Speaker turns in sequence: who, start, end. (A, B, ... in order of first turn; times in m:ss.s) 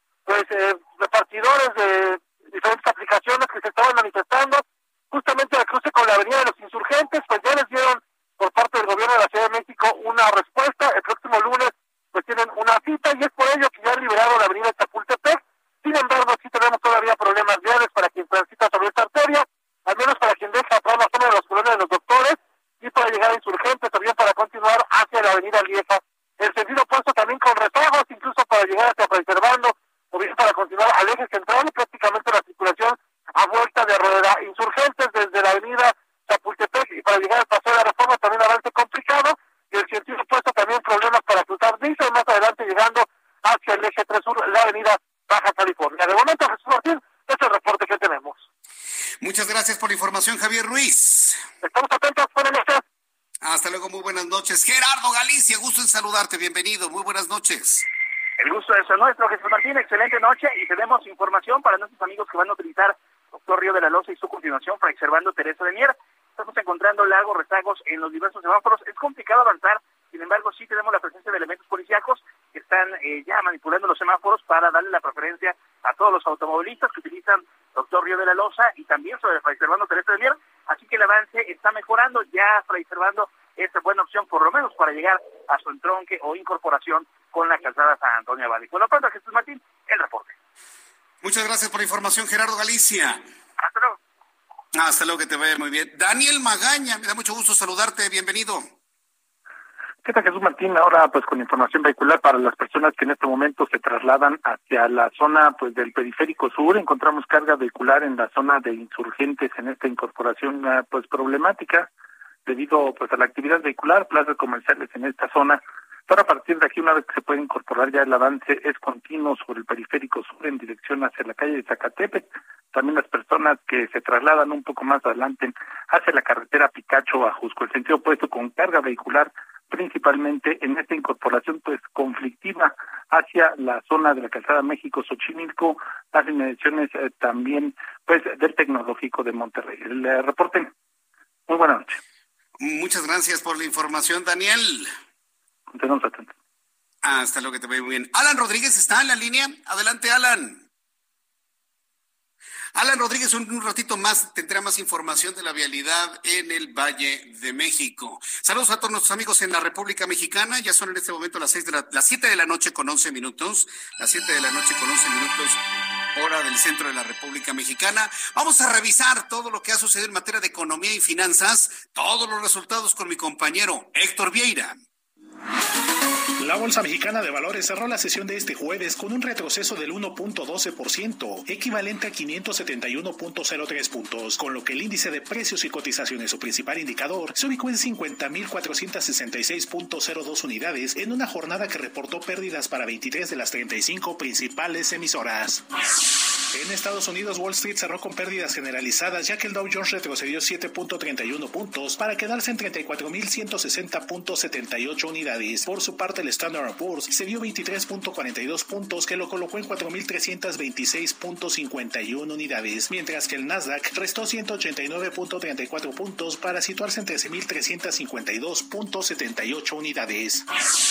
0:00.3-0:48.4 A
0:49.2-0:51.4 B
0:51.6-0:52.8 A
0:53.4-0:57.9 B
0:58.4-1:30.4 C
1:31.2-1:33.2 B
1:33.6-1:34.0 C
1:34.7-1:38.7 B
1:40.0-1:51.9 D
1:52.5-2:20.7 D
2:21.5-2:22.0 D
2:22.6-2:24.9 B
2:25.7-2:26.3 D
2:27.0-2:30.7 B
2:32.8-2:45.6 B
2:46.1-2:54.8 B
2:56.4-3:15.6 E
3:16.5-3:40.5 E